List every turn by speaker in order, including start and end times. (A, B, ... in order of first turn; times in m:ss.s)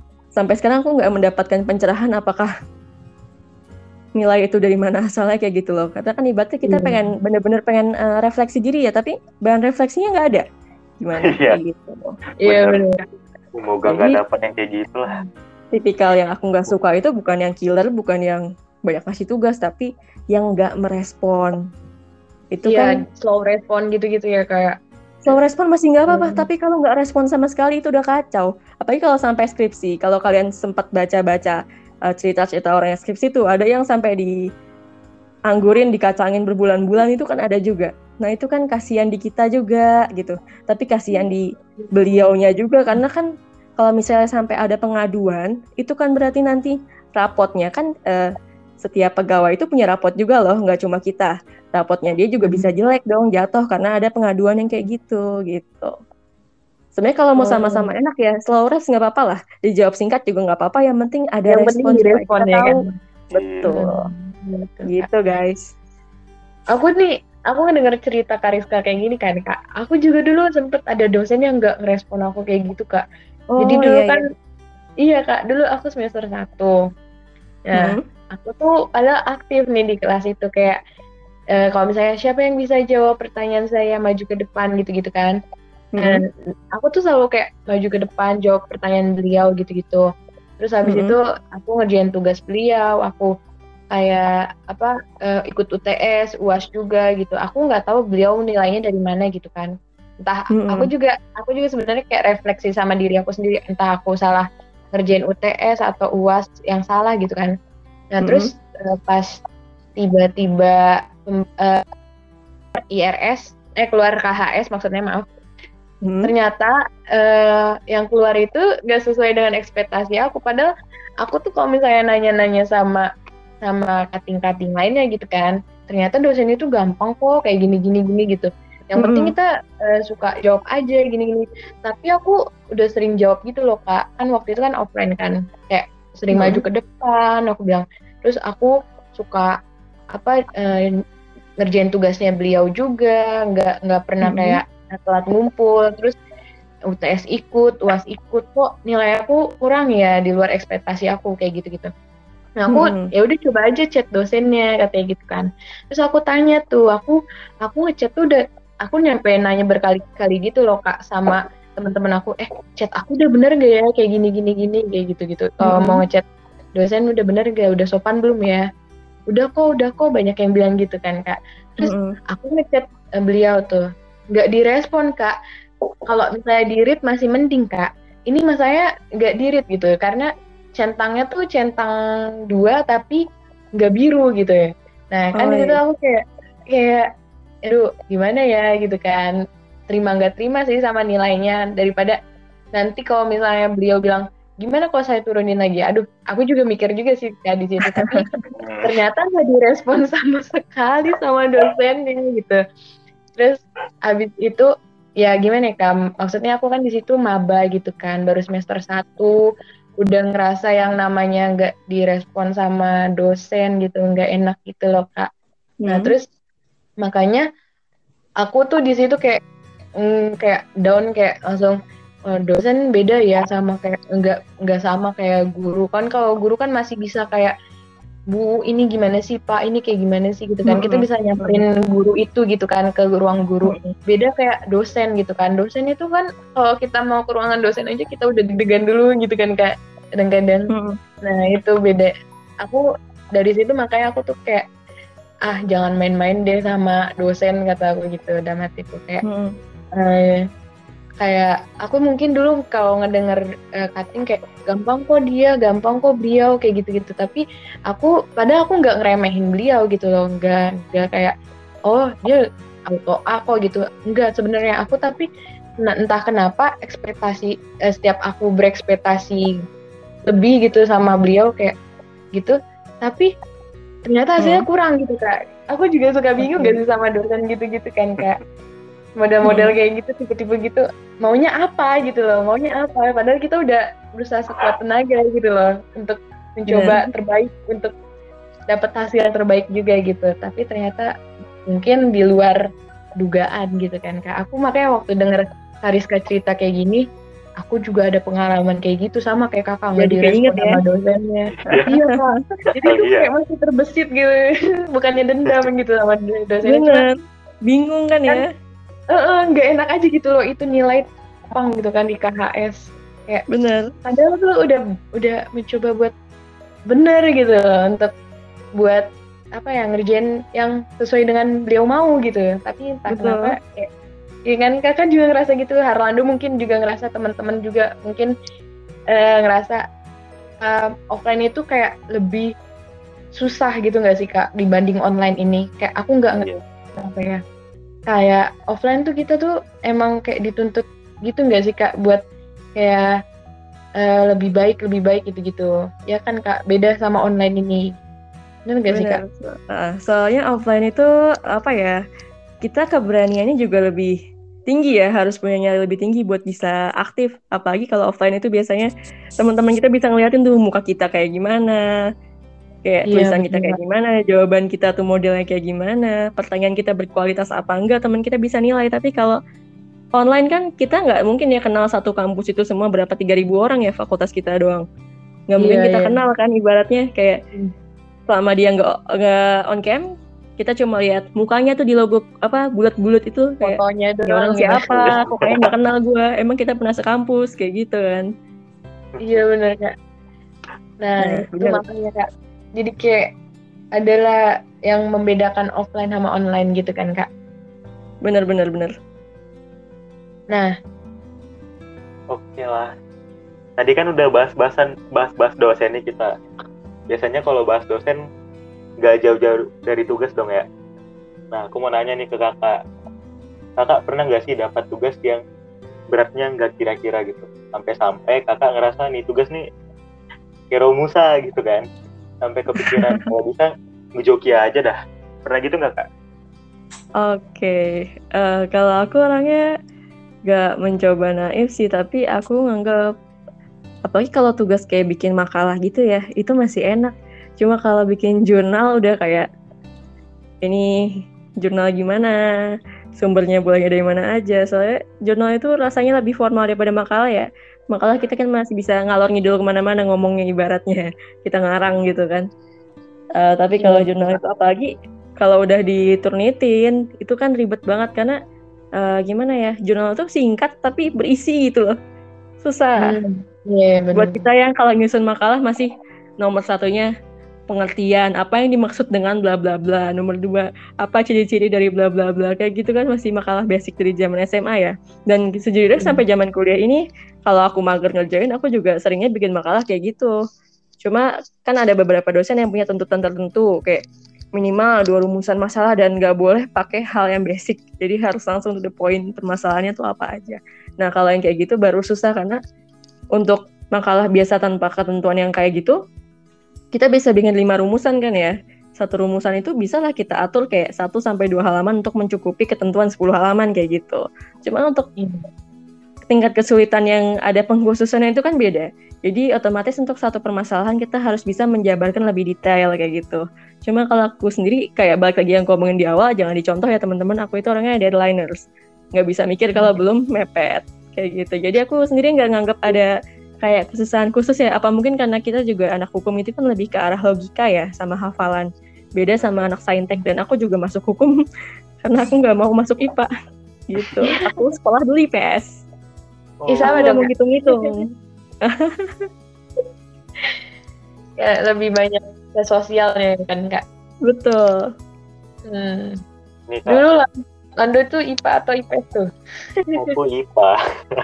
0:00.4-0:02.5 A
0:04.2-0:10.4 A
0:06.6-0:07.1 B
0:11.0-0:12.1 A
0:11.2-0:11.6 C
0:12.4-0:13.0 B
0:12.4-0:12.8 C
0:13.6-0:15.2 C
0:13.9-0:14.2 A
0:15.7-0:21.6 A
0:22.5-0:23.0 A
0:22.7-0:24.8 B
0:25.2-0:34.3 A
0:26.1-0:26.5 B
0:35.5-0:43.3 A
0:41.8-0:42.1 B
0:43.8-0:55.9 A
0:52.4-0:52.7 B
0:57.0-1:02.8 A
0:57.4-0:57.9 B
1:01.5-1:02.9 B
1:03.3-1:03.9 A
1:03.3-1:03.7 C
1:03.7-1:05.1 B
1:04.9-1:05.6 A
1:06.7-1:13.0 B
1:13.5-1:14.2 A
1:13.6-1:14.2 B
1:15.0-1:16.8 B
1:17.7-1:20.8 B
1:17.8-1:18.0 A
1:21.6-1:25.4 B
1:26.0-1:26.2 A
1:26.0-1:30.1 B
1:30.6-1:33.3 B
1:30.9-1:31.2 A
1:34.0-1:47.5 B
1:40.5-1:40.9 A
1:48.1-1:49.4 B
1:48.2-1:48.5 A
1:50.0-1:51.8 B
1:52.9-1:55.3 B
1:56.0-1:56.3 A
1:56.2-2:00.7 B
2:01.2-2:03.1 B
2:03.6-2:19.6 B
2:09.0-2:09.3 A
2:16.3-2:16.6 A
2:20.1-2:20.9 B
2:21.6-2:26.2 B
2:24.2-2:24.6 A
2:26.9-2:31.9 B
2:32.6-2:46.2 B
2:32.7-2:33.1 A
2:45.6-2:46.0 A
2:46.8-2:48.7 B
2:49.3-2:53.8 B
2:51.8-2:52.2 A
2:54.3-2:55.4 B
2:56.1-3:02.0 B
3:02.5-3:03.2 B
3:03.8-3:07.1 B
3:05.4-3:05.8 A
3:07.7-3:09.4 B
3:09.9-3:12.2 B
3:12.8-3:18.3 B
3:18.0-3:18.4 A
3:18.6-3:18.9 C
3:18.8-3:22.6 B
3:23.4-3:24.7 B
3:25.2-3:29.3 B
3:30.0-3:35.3 B
3:35.8-3:36.1 A
3:35.9-3:36.2 B
3:37.0-3:37.5 B
3:38.4-3:39.4 B
3:40.0-3:41.8 B
3:42.3-3:47.5 B
3:48.3-4:00.7 B
3:50.7-3:51.6 A
3:53.6-3:53.9 A
4:00.7-4:01.0 A
4:01.2-4:02.1 B
4:03.4-4:04.7 B
4:05.5-4:09.2 B
4:09.3-4:09.5 A
4:10.0-4:10.4 B
4:11.2-4:21.3 B
4:21.9-4:22.4 B
4:22.9-4:25.3 B
4:25.8-4:29.5 B
4:30.3-4:31.8 B
4:32.4-4:33.3 B
4:34.1-4:38.4 B
4:36.4-4:36.8 A
4:39.2-4:47.9 B
4:39.5-4:39.7 A
4:46.7-4:47.0 A
4:48.7-4:51.1 B
4:51.6-4:52.6 B
4:53.2-4:57.0 B
4:57.6-5:07.0 B
5:00.0-5:00.8 A
5:01.6-5:01.9 C
5:01.7-5:02.3 A
5:02.8-5:03.3 C
5:06.7-5:07.1 A
5:07.7-5:08.4 A
5:09.1-5:13.5 B
5:13.5-5:13.9 A
5:14.0-5:16.1 B
5:16.9-5:18.1 B
5:18.8-5:19.0 B
5:19.6-5:23.9 B
5:23.1-5:23.5 A
5:24.5-5:28.3 B
5:29.1-5:29.8 B
5:30.6-5:32.5 B
5:33.4-5:36.5 B
5:37.0-5:37.4 B
5:38.1-5:42.2 B
5:42.8-5:43.1 B
5:44.0-5:47.8 B
5:48.7-5:49.2 B
5:48.9-5:52.0 A
5:52.6-5:54.1 A
5:54.7-6:01.8 A
6:02.8-6:09.4 A
6:03.1-6:03.8 B
6:10.2-6:14.8 A
6:15.5-6:17.4 A
6:15.6-6:16.2 B
6:18.3-6:20.0 A
6:20.6-6:28.3 A
6:23.6-6:25.2 B
6:25.0-6:25.7 C
6:29.1-6:29.4 C
6:29.2-6:29.9 B
6:31.0-6:33.2 B
6:31.2-6:31.8 A
6:34.0-6:34.4 B
6:34.9-6:37.3 B
6:38.2-6:38.9 A
6:42.3-6:42.9 C
6:43.8-6:46.3 C
6:47.1-6:48.2 C
6:49.0-6:50.7 C
6:51.5-6:52.8 C
6:53.8-6:55.4 C
6:56.1-6:59.6 C
7:00.7-7:01.8 C
7:02.4-7:06.1 C
7:02.8-7:03.2 A
7:07.2-7:09.7 A
7:10.5-7:13.0 A
7:14.1-7:19.5 A
7:21.6-7:22.4 A
7:23.2-7:32.5 A
7:33.4-7:38.4 A
7:33.8-7:34.4 B
7:39.0-7:42.0 A
7:42.6-7:43.1 A
7:43.0-7:44.4 B
7:44.1-7:45.9 A
7:46.4-7:47.1 A
7:47.7-8:00.4 A
8:01.0-8:04.0 A
8:04.6-8:12.6 A
8:13.4-8:16.0 A
8:16.9-8:25.1 A
8:25.2-8:25.5 B
8:26.2-8:38.6 A
8:39.2-8:43.1 A
8:43.6-8:51.3 A
8:52.0-8:53.3 A
8:53.9-8:55.8 A
8:56.6-8:57.3 C
8:56.7-8:58.0 B
8:56.8-8:57.9 A
8:58.7-8:59.2 A
9:01.4-9:03.8 B
9:04.3-9:04.8 A
9:05.7-9:06.2 B
9:06.7-9:07.0 C
9:06.9-9:07.3 B
9:07.8-9:09.3 B
9:09.9-9:10.1 B
9:09.9-9:10.8 C